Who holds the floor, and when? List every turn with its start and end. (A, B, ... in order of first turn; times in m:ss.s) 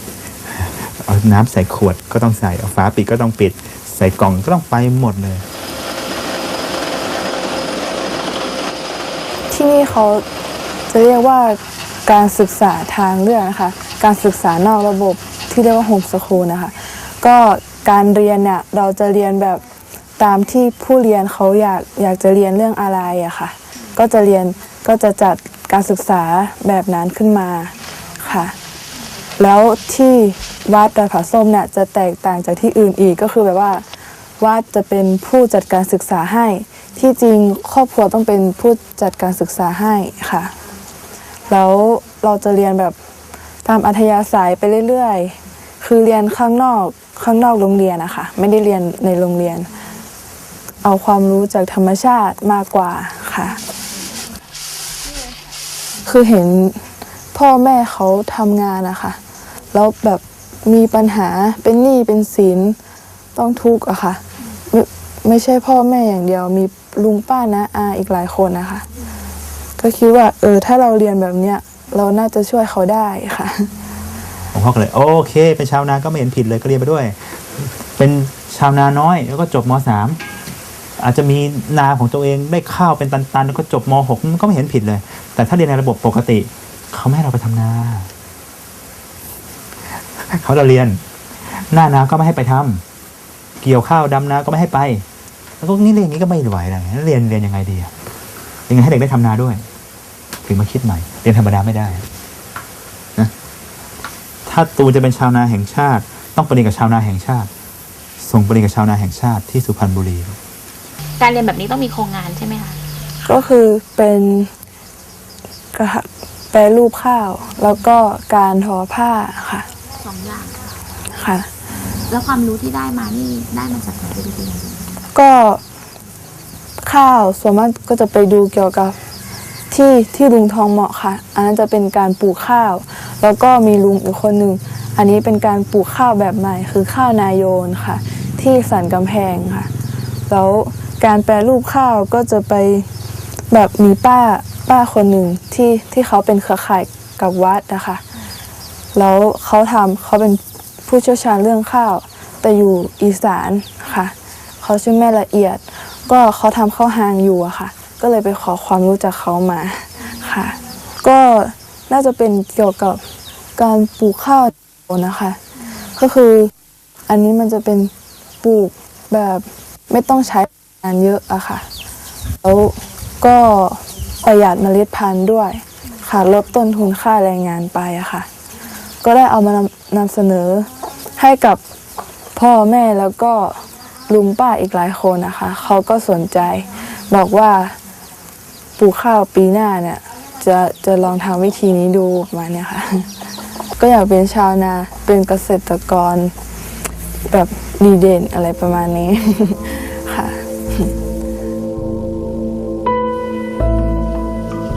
0:00.5-0:05.4 A
0:09.5-0:10.2 B
0:10.9-0:19.6 B
0:20.2-0:28.5 B
0:29.4-0:33.8 B
0:34.4-0:40.5 B
0:41.5-0:43.0 B
0:43.6-0:49.7 B
0:50.8-0:53.6 B
0:56.0-0:56.8 B
0:57.3-0:59.2 B
0:59.7-1:02.8 B
1:03.3-1:08.8 B
1:09.8-1:13.7 B
1:14.5-1:20.2 A
1:21.0-1:28.1 A
1:30.2-1:31.0 A
1:31.7-1:32.8 A
1:33.6-1:35.0 A
1:35.6-1:37.9 A
1:38.7-1:39.6 A
1:40.4-1:42.0 A
1:44.4-1:47.5 A
1:48.2-1:50.4 A
1:51.2-1:52.8 C
1:53.2-1:54.5 B
1:55.7-1:59.6 B
2:00.0-2:00.6 C
2:01.2-2:01.5 B
2:02.1-2:04.9 C
2:05.1-2:05.6 B
2:06.8-2:09.0 B
2:09.7-2:19.7 B
2:20.3-2:22.9 B
2:23.5-2:28.0 B
2:28.9-2:43.0 B
2:43.6-2:45.4 B
2:45.9-2:46.5 B
2:47.1-2:47.9 B
2:48.4-2:51.6 B
2:52.4-2:58.3 B
2:59.0-3:01.6 B
3:02.4-3:07.8 B
3:08.8-3:13.1 B
3:13.8-3:16.3 B
3:17.3-3:20.9 B